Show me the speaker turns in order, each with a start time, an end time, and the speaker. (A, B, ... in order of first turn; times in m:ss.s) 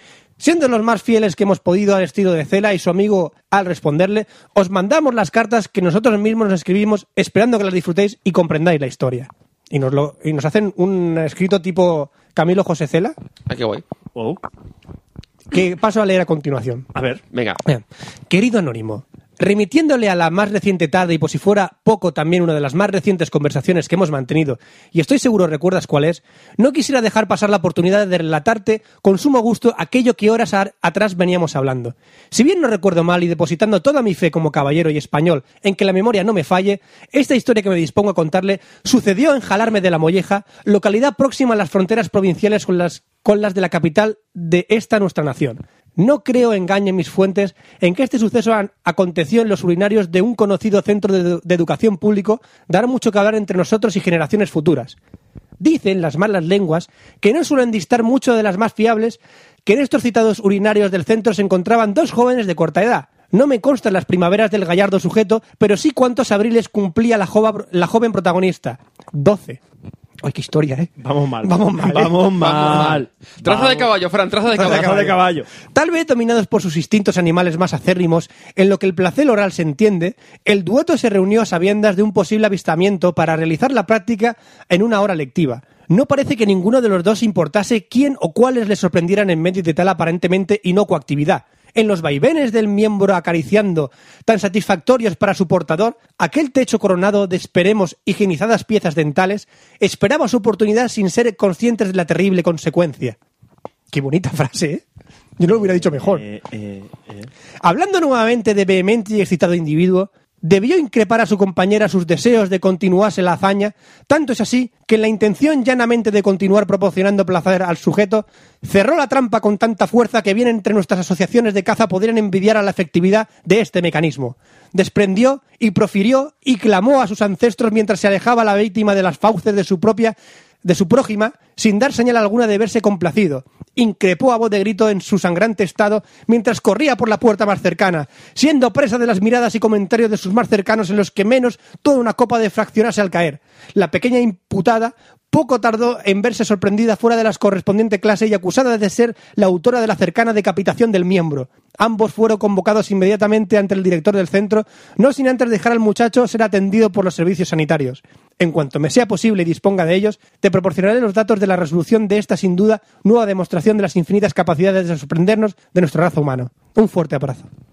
0:00.4-0:13.1 A
0:13.5-0:13.8 B
0:14.1-0:14.4 C
0:15.5-0:16.9 A
0:16.9-0:17.2 C
0:17.3-0:17.6 B
0:17.6-0:55.0 A
0:55.6-1:09.6 A
1:10.2-1:10.9 A
1:11.0-1:13.9 C
1:11.4-1:12.2 A
1:12.4-1:14.9 B
1:14.6-1:15.5 C
1:14.6-1:43.2 A
1:43.9-1:44.8 A
1:45.4-1:46.2 A
1:45.5-1:47.3 C
1:47.6-2:47.5 A